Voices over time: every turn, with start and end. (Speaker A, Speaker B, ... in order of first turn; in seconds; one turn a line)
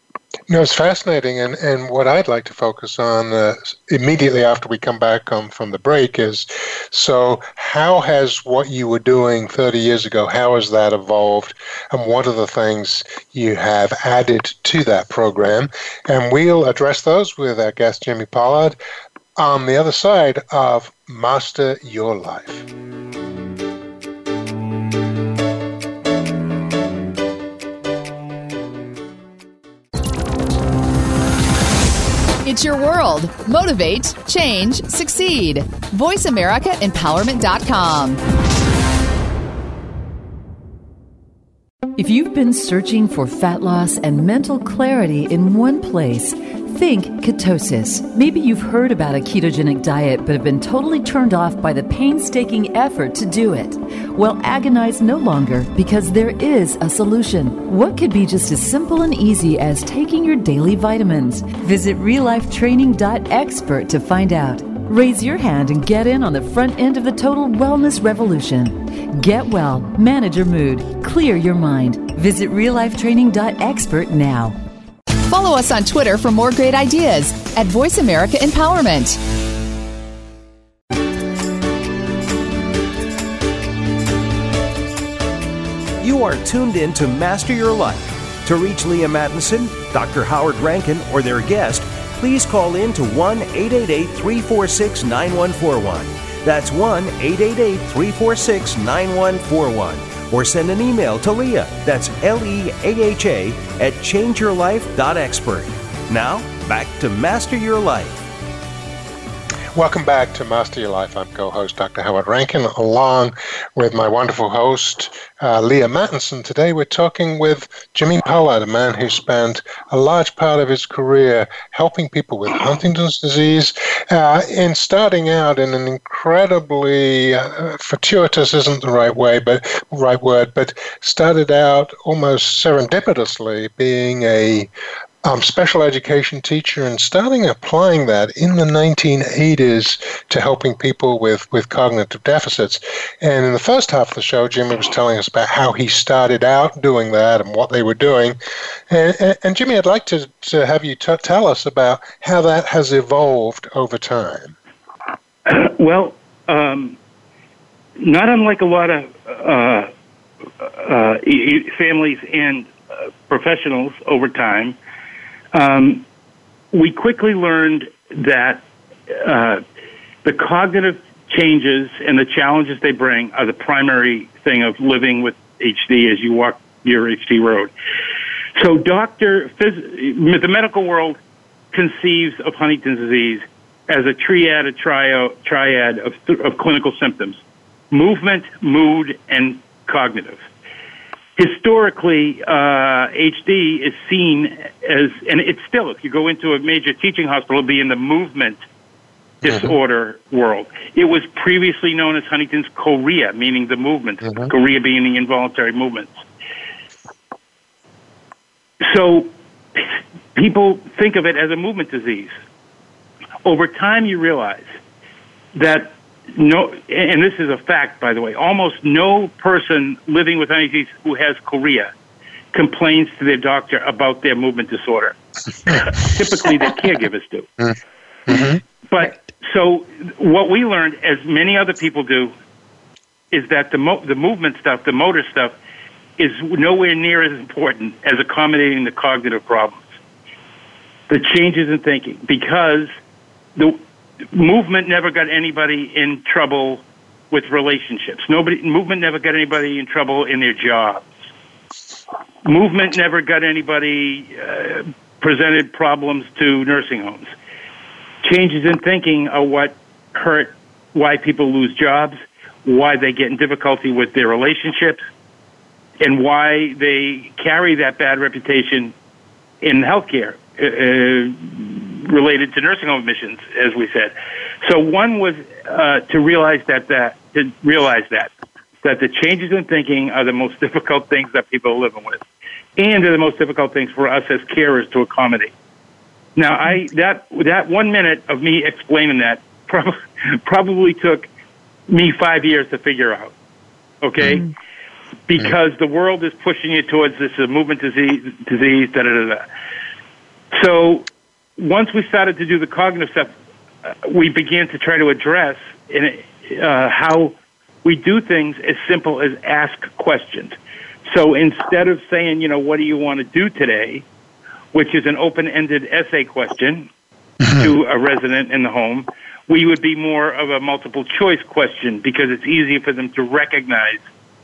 Speaker A: 0.5-18.8
Speaker A: 19.4-22.7
Speaker B: 32.5-38.2
Speaker C: 42.0-74.6
Speaker B: 75.2-79.2
Speaker D: 86.0-108.3
Speaker A: 109.8-134.7
Speaker A: 135.2-148.4
Speaker A: 148.9-154.6
Speaker E: 155.5-157.0
Speaker E: 158.0-159.9
Speaker E: 160.6-162.7
Speaker E: 163.3-164.8
Speaker E: 165.5-166.1
Speaker E: 166.7-169.6
Speaker E: 170.2-177.7
Speaker E: 178.6-181.2
Speaker E: 181.7-187.4
Speaker E: 187.9-190.4
Speaker E: 191.4-198.6
Speaker E: 199.4-206.1
Speaker A: 199.4-199.7
Speaker E: 208.8-212.3
Speaker E: 213.4-214.7
Speaker E: 215.5-221.9
Speaker E: 222.5-225.2
Speaker E: 225.7-227.5
Speaker A: 228.3-228.6
Speaker E: 228.9-232.3
Speaker E: 233.3-235.6
Speaker E: 236.2-239.8
Speaker E: 241.1-242.9
Speaker E: 244.3-251.1
Speaker E: 252.4-257.3
Speaker E: 258.2-265.0
Speaker E: 266.0-268.9
Speaker E: 269.6-278.3
Speaker E: 278.8-282.2
Speaker E: 282.8-285.5
Speaker E: 286.4-291.3
Speaker E: 291.9-293.3
Speaker E: 294.0-294.5
Speaker E: 295.3-299.4
Speaker E: 300.5-301.1
Speaker E: 301.6-303.3
Speaker E: 303.9-310.6
Speaker E: 311.1-314.1
Speaker E: 314.7-316.9
Speaker A: 317.4-317.7
Speaker E: 317.5-324.0